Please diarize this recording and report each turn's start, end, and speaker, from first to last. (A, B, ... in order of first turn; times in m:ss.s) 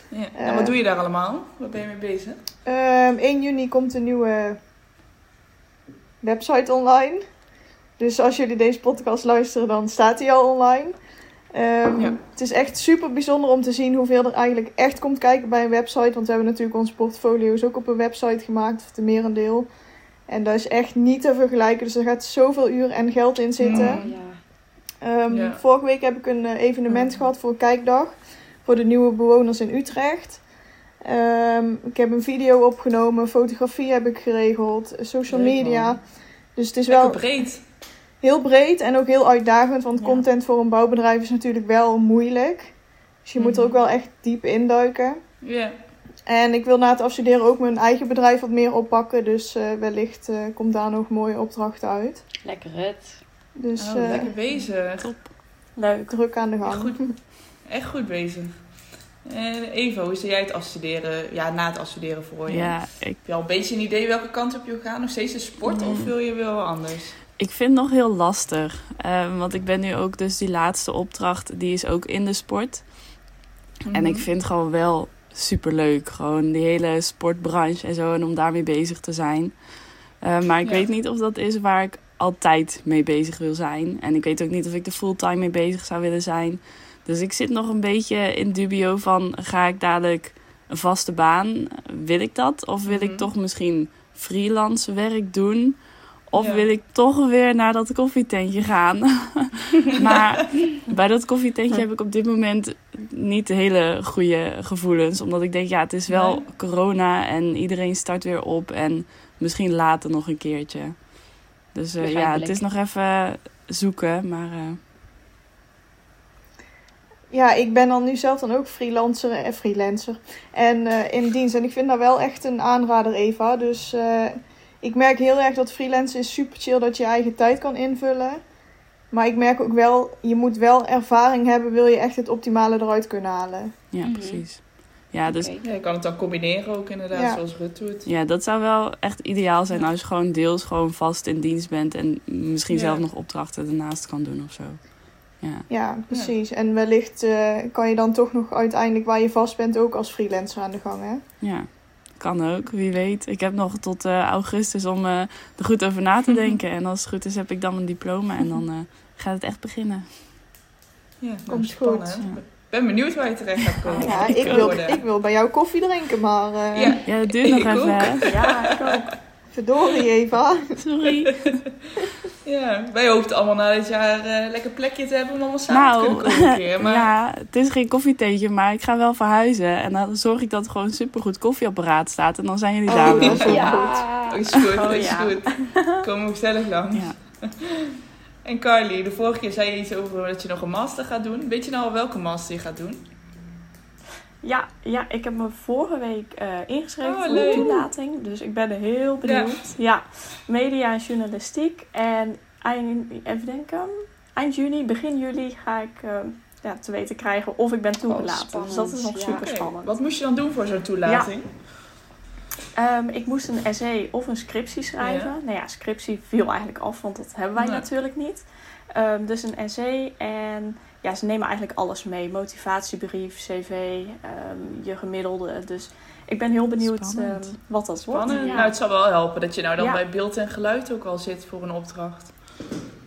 0:00.1-0:02.4 A
0:00.4-0:00.8 B
0:02.6-0:04.6 B
0:06.2-0:07.2 B
0:08.0-0:11.0 B
0:11.5-0:19.7 B
0:20.3-0:24.0 B
0:23.6-0:24.2 A
0:23.7-0:24.4 C
0:25.0-0:30.4 B
0:25.3-0:25.6 A
0:31.0-0:36.0 B
0:35.3-0:36.0 A
0:36.6-0:37.2 B
0:36.9-0:37.6 A
0:38.2-0:42.7 B
0:43.2-0:45.2 B
0:43.4-0:43.8 A
0:45.4-0:45.7 A
0:46.3-0:52.2 B
0:52.4-0:53.2 C
0:53.6-0:54.3 B
0:53.8-0:55.1 A
0:55.0-0:55.3 D
0:55.8-0:56.1 E
0:56.1-0:57.1 B
0:56.6-1:07.2 A
1:02.5-1:03.2 D
1:05.6-1:06.1 D
1:07.4-1:12.9 D
1:13.9-1:14.3 A
1:13.9-1:54.8 D
1:32.9-1:33.3 A
1:36.3-1:36.6 A
1:46.1-1:46.5 A
1:52.0-1:52.6 C
1:57.3-2:08.4 B
2:09.1-2:13.7 B
2:13.9-2:15.5 D
2:14.0-2:14.4 C
2:15.3-2:15.6 C
2:15.6-2:18.1 A
2:17.1-2:17.4 B
2:18.0-2:25.7 D
2:22.7-2:23.0 A
2:25.7-2:31.2 B
2:31.4-2:40.2 D
2:41.2-2:45.0 A
2:41.5-2:42.2 B
2:43.7-2:44.7 D
2:44.0-2:44.7 E
2:44.0-2:47.0 B
2:46.7-2:49.0 A
2:47.0-2:48.4 D
2:48.2-2:49.2 E
2:49.5-2:50.8 B
2:50.8-2:51.6 D
2:52.4-2:57.1 A
2:55.7-3:04.0 D
3:02.9-3:04.0 B
3:03.0-3:07.8 A
3:03.5-3:04.4 C
3:04.8-3:06.0 E
3:06.9-3:07.2 D
3:08.4-3:13.0 A
3:14.4-3:29.9 E
3:17.0-3:17.8 A
3:17.3-3:17.7 C
3:19.2-3:19.5 A
3:28.1-3:29.5 C
3:29.4-3:31.7 A
3:31.0-3:31.3 E
3:32.8-3:48.8 E
3:35.0-3:35.3 A
3:37.6-3:37.9 A
3:46.8-3:47.4 D
3:48.0-3:52.4 A
3:48.3-3:48.7 C